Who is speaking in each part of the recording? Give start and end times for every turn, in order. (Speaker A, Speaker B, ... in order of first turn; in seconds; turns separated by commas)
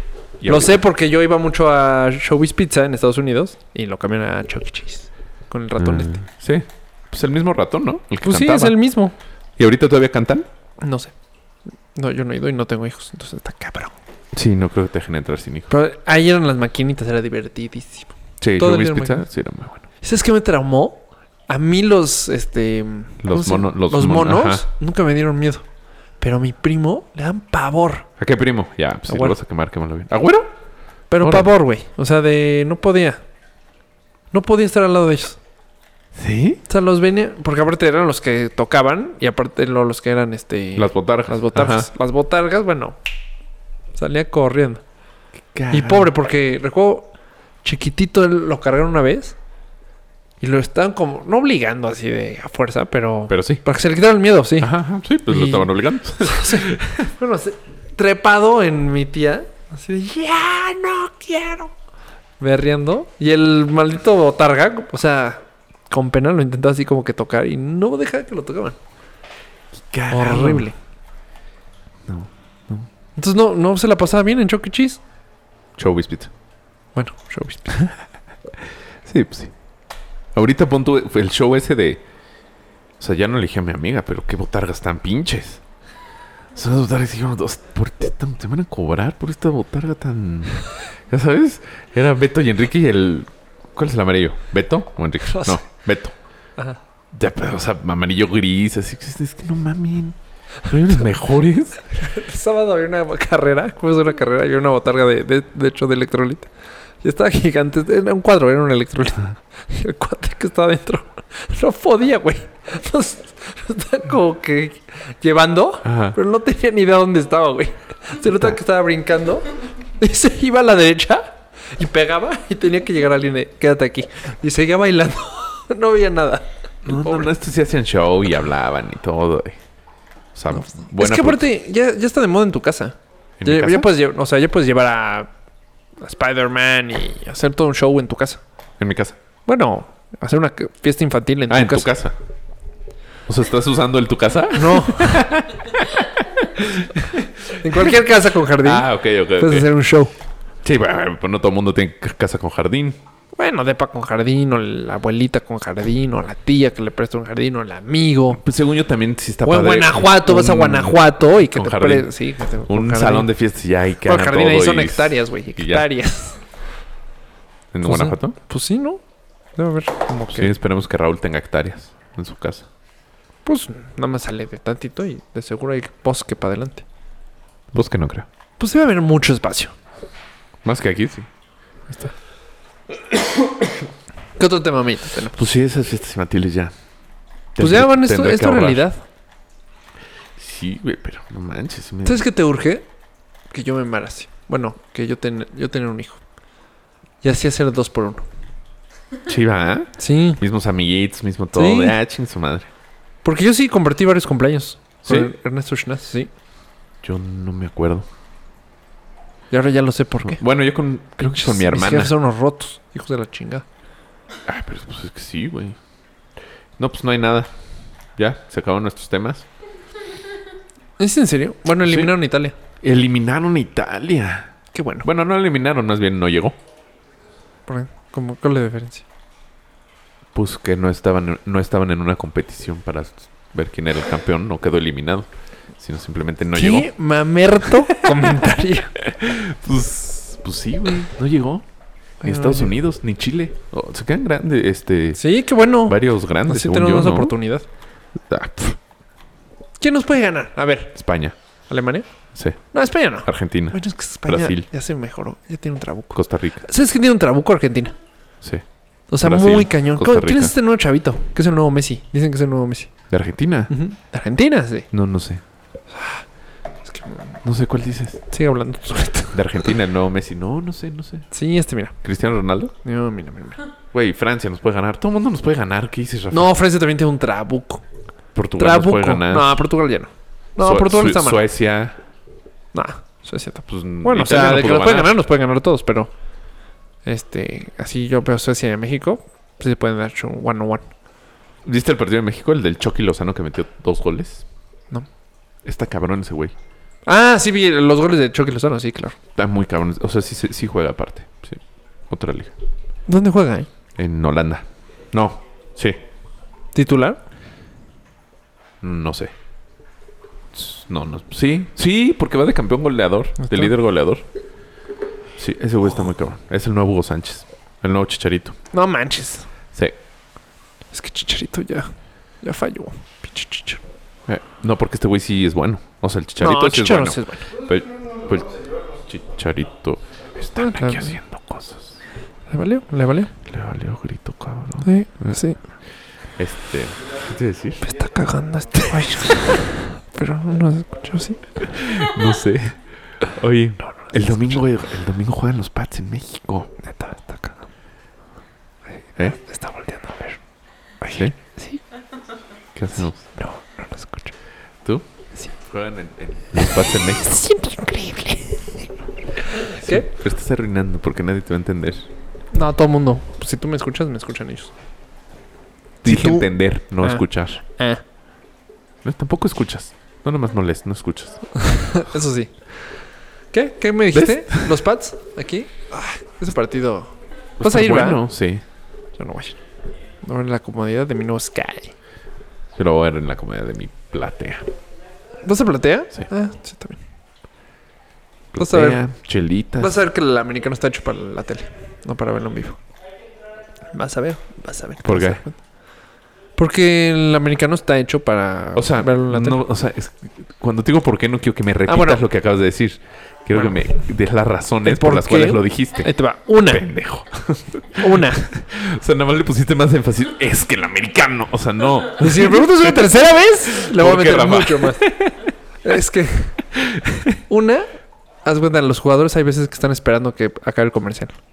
Speaker A: 0.4-0.8, Speaker B: 0.5-6.2, Speaker A: 5.8-8.8, Speaker B: 8.2-9.1, Speaker A: 9.6-10.5, Speaker B: 10.8-11.1, Speaker B: 11.9-13.9, Speaker A: 14.3-15.7, Speaker B: 15.7-19.2, Speaker A: 18.4-19.8, Speaker B: 20.0-25.6, Speaker A: 23.2-24.6, Speaker B: 26.2-28.1, Speaker A: 28.2-30.5, Speaker B: 29.1-29.4, Speaker B: 31.1-33.2, Speaker A: 31.2-31.5, Speaker B: 34.3-35.4, Speaker A: 36.1-36.6, Speaker B: 36.7-43.0, Speaker A: 40.8-41.9, Speaker B: 43.9-44.8, Speaker A: 45.5-46.1, Speaker B: 45.7-47.1, Speaker B: 47.6-49.3, Speaker B: 50.4-54.7, Speaker A: 53.3-53.6, Speaker A: 54.6-57.1, Speaker B: 55.3-61.7, Speaker B: 62.4-68.8, Speaker A: 69.7-70.7, Speaker B: 70.1-70.8, Speaker A: 72.0-72.9, Speaker B: 73.2-75.0, Speaker A: 75.8-76.3, Speaker B: 76.9-77.8, Speaker A: 79.0-79.5, Speaker A: 80.3-82.0, Speaker A: 83.0-85.6, Speaker A: 86.5-96.1, Speaker B: 95.3-95.6, Speaker A: 97.1-101.8, Speaker B: 101.9-106.5, Speaker B: 107.0-127.3, Speaker A: 115.8-116.2, Speaker A: 126.8-129.6, Speaker A: 130.3-131.4, Speaker B: 130.5-135.3, Speaker A: 133.4-133.9, Speaker B: 136.0-138.4, Speaker A: 138.8-139.2, Speaker B: 139.5-141.9, Speaker A: 141.5-142.2, Speaker A: 143.3-148.0, Speaker B: 144.5-145.2, Speaker B: 147.6-150.1, Speaker A: 148.6-149.7, Speaker A: 150.6-153.0, Speaker B: 153.3-158.4, Speaker A: 158.3-162.1, Speaker B: 159.4-163.3, Speaker A: 162.7-165.9, Speaker B: 164.0-166.4, Speaker A: 167.7-168.3, Speaker B: 167.8-169.0, Speaker B: 169.6-170.5, Speaker A: 170.3-172.7, Speaker B: 173.4-176.8, Speaker A: 177.7-178.3, Speaker B: 178.6-179.7, Speaker A: 180.6-181.3, Speaker B: 184.4-185.4, Speaker A: 185.3-186.7, Speaker A: 187.5-188.8, Speaker B: 187.6-189.0, Speaker A: 190.3-192.2, Speaker B: 192.0-192.8, Speaker B: 193.5-196.2, Speaker B: 197.2-198.2, Speaker A: 199.2-202.7, Speaker B: 200.0-200.4, Speaker B: 201.5-201.9, Speaker B: 203.2-206.3, Speaker A: 205.0-205.3, Speaker A: 207.0-208.1, Speaker B: 209.5-210.4, Speaker A: 210.2-212.1, Speaker B: 211.2-213.6, Speaker A: 214.4-215.8, Speaker A: 216.8-217.5, Speaker A: 218.2-219.4, Speaker B: 221.0-222.5, Speaker A: 221.8-222.1, Speaker A: 222.8-224.5, Speaker B: 224.7-225.1, Speaker A: 225.0-226.6, Speaker B: 227.7-229.0, Speaker A: 230.3-236.9, Speaker B: 236.5-238.9, Speaker A: 237.8-241.6, Speaker B: 242.2-242.7, Speaker A: 242.2-245.2, Speaker B: 245.2-247.6, Speaker A: 245.8-247.3, Speaker A: 248.3-248.8, Speaker B: 249.8-251.0, Speaker A: 250.9-251.3, Speaker B: 251.7-252.1, Speaker B: 252.7-257.9, Speaker A: 253.2-254.7, Speaker A: 256.1-256.6, Speaker B: 259.1-262.9, Speaker A: 259.2-260.5, Speaker A: 263.1-263.7, Speaker B: 263.7-264.9, Speaker A: 264.9-265.4, Speaker B: 265.9-266.2, Speaker B: 266.8-267.4, Speaker A: 267.4-268.2, Speaker B: 268.3-269.7, Speaker A: 269.3-271.3, Speaker B: 271.3-271.9, Speaker A: 272.0-272.7, Speaker B: 272.8-273.6, Speaker A: 273.9-276.5, Speaker B: 276.3-277.8, Speaker A: 278.3-279.6, Speaker B: 278.6-281.4, Speaker A: 280.6-282.0, Speaker B: 282.7-286.1, Speaker A: 283.7-285.2, Speaker B: 287.0-290.9, Speaker A: 291.6-294.4, Speaker A: 295.6-296.5, Speaker B: 297.1-299.1, Speaker A: 299.4-302.5, Speaker B: 303.1-303.7, Speaker A: 303.9-306.0, Speaker B: 306.7-307.2, Speaker A: 308.8-309.3, Speaker A: 310.5-314.2, Speaker B: 313.4-313.7, Speaker A: 315.4-318.6, Speaker B: 318.7-319.5, Speaker B: 320.9-323.8, Speaker A: 324.2-332.0, Speaker B: 326.4-327.5, Speaker B: 330.6-331.2, Speaker B: 332.5-333.3, Speaker A: 333.4-335.4, Speaker B: 334.8-335.6, Speaker A: 336.4-337.8, Speaker B: 337.8-341.7, Speaker A: 341.6-346.7, Speaker B: 344.0-344.4, Speaker B: 346.8-347.6, Speaker B: 349.2-350.4, Speaker B: 351.0-351.8, Speaker A: 351.0-351.3, Speaker A: 352.7-353.2, Speaker B: 353.3-354.3, Speaker A: 355.6-357.4, Speaker B: 357.0-358.9, Speaker B: 359.5-360.1, Speaker A: 359.7-362.1, Speaker B: 362.5-364.7, Speaker A: 366.0-367.6, Speaker B: 366.0-368.0, Speaker A: 369.0-371.6, Speaker B: 371.6-372.5, Speaker B: 373.5-378.2, Speaker A: 374.1-374.7, Speaker A: 377.6-378.6, Speaker B: 379.2-379.6, Speaker B: 380.2-381.9, Speaker A: 382.7-384.7, Speaker B: 385.4-387.0, Speaker A: 388.5-389.9, Speaker B: 388.6-389.0, Speaker B: 389.8-392.8, Speaker B: 393.9-395.6, Speaker A: 395.0-395.4, Speaker B: 396.6-399.6, Speaker A: 398.7-406.1, Speaker B: 401.9-402.2, Speaker B: 403.5-403.8, Speaker B: 404.8-406.9, Speaker A: 406.6-415.5, Speaker B: 408.0-408.5, Speaker B: 412.2-415.1, Speaker B: 415.8-416.6, Speaker A: 416.7-417.4, Speaker B: 417.5-417.9, Speaker B: 418.4-421.4